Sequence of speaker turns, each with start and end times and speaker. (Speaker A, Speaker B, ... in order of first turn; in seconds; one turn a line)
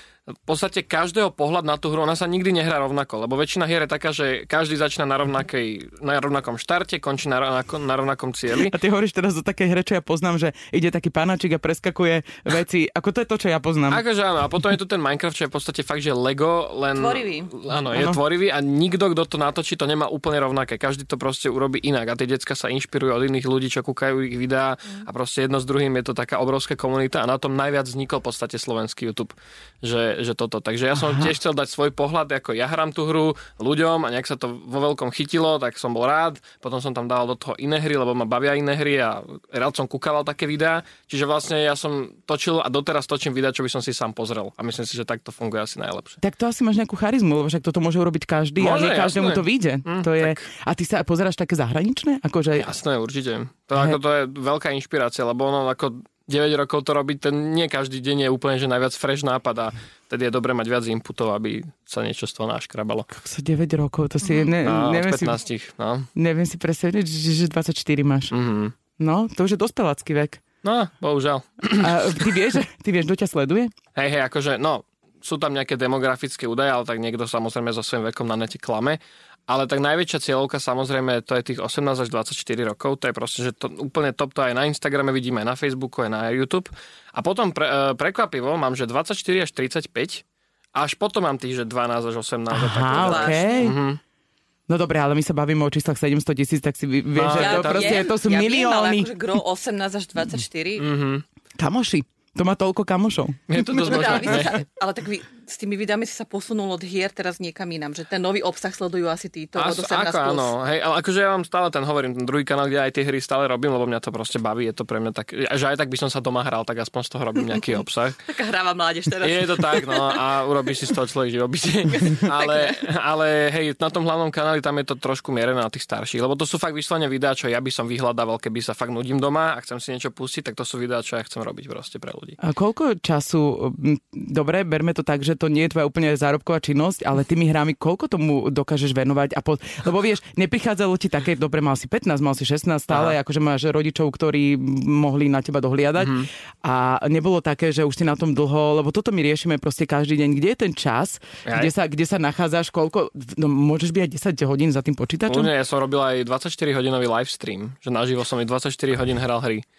Speaker A: 0.5-8.7
Speaker B: 8.5-14.0
Speaker A: 13.9-46.2
Speaker C: 16.9-17.5
Speaker B: 17.9-18.2
Speaker B: 46.2-52.7
Speaker A: 48.6-50.4
Speaker A: 52.6-63.1
Speaker B: 63.1-65.4
Speaker A: 64.6-66.1
Speaker B: 66.1-68.3
Speaker A: 68.3-68.7
Speaker B: 69.0-70.4
Speaker A: 70.6-72.3
Speaker B: 71.8-73.7
Speaker A: 73.9-90.2
Speaker A: 90.7-94.0
Speaker B: 92.5-93.8
Speaker C: 93.0-93.7
Speaker B: 94.7-99.1
Speaker A: 97.2-98.0
Speaker C: 97.3-100.8
Speaker A: 100.8-101.2
Speaker B: 101.6-104.5
Speaker A: 103.5-104.5
Speaker C: 103.6-110.5
Speaker A: 109.5-118.2
Speaker C: 118.3-120.2
Speaker A: 119.2-132.4
Speaker C: 121.9-122.8
Speaker B: 132.4-155.5
Speaker A: 142.9-143.1
Speaker A: 146.0-146.3
Speaker A: 151.4-151.7
Speaker A: 155.3-159.6